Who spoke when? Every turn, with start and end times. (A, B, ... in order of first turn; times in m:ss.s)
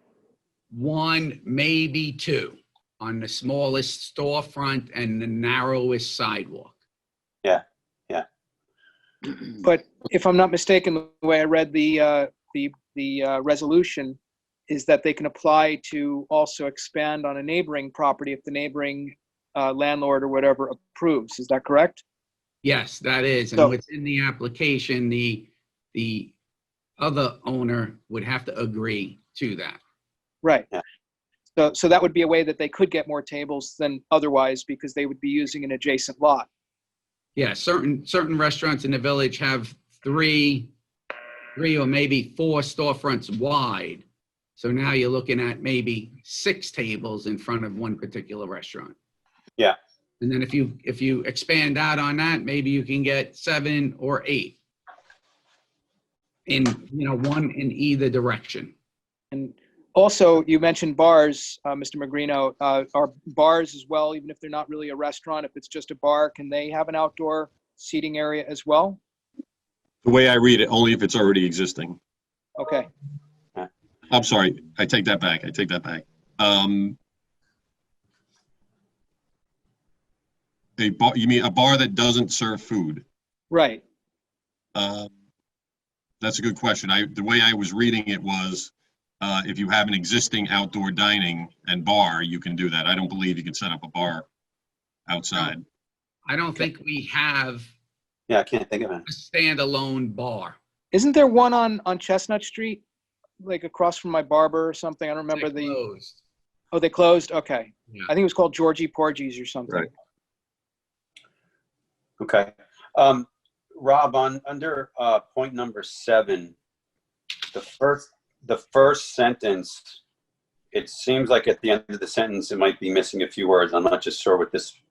0:00.7-0:06.7 A
0:07.4-0:08.2 B
0:09.6-0:14.2 C
0:14.7-0:22.0 C
0:22.6-0:26.3 A
0:27.0-0:29.8 A
0:30.4-0:30.7 C
0:31.6-0:36.5 C
0:37.4-0:40.7 A
0:41.6-0:44.0 A
0:44.6-0:49.0 A
0:50.2-0:54.6 A
0:56.5-0:58.7 A
0:59.3-1:09.0 C
1:10.0-1:12.0 D
1:12.6-1:12.9 C
1:14.1-1:17.0 D
1:20.8-1:23.0 D
1:23.5-1:23.8 C
1:24.8-1:25.1 D
1:26.2-1:34.3 D
1:35.1-1:35.6 D
1:36.3-1:37.7 A
1:38.3-1:39.0 B
1:39.1-1:40.6 A
1:40.9-1:42.8 C
1:43.4-1:45.8 C
1:45.3-1:46.2 A
1:46.7-1:49.9 C
1:52.2-1:56.6 B
1:57.5-2:00.0 B
2:00.7-2:04.8 B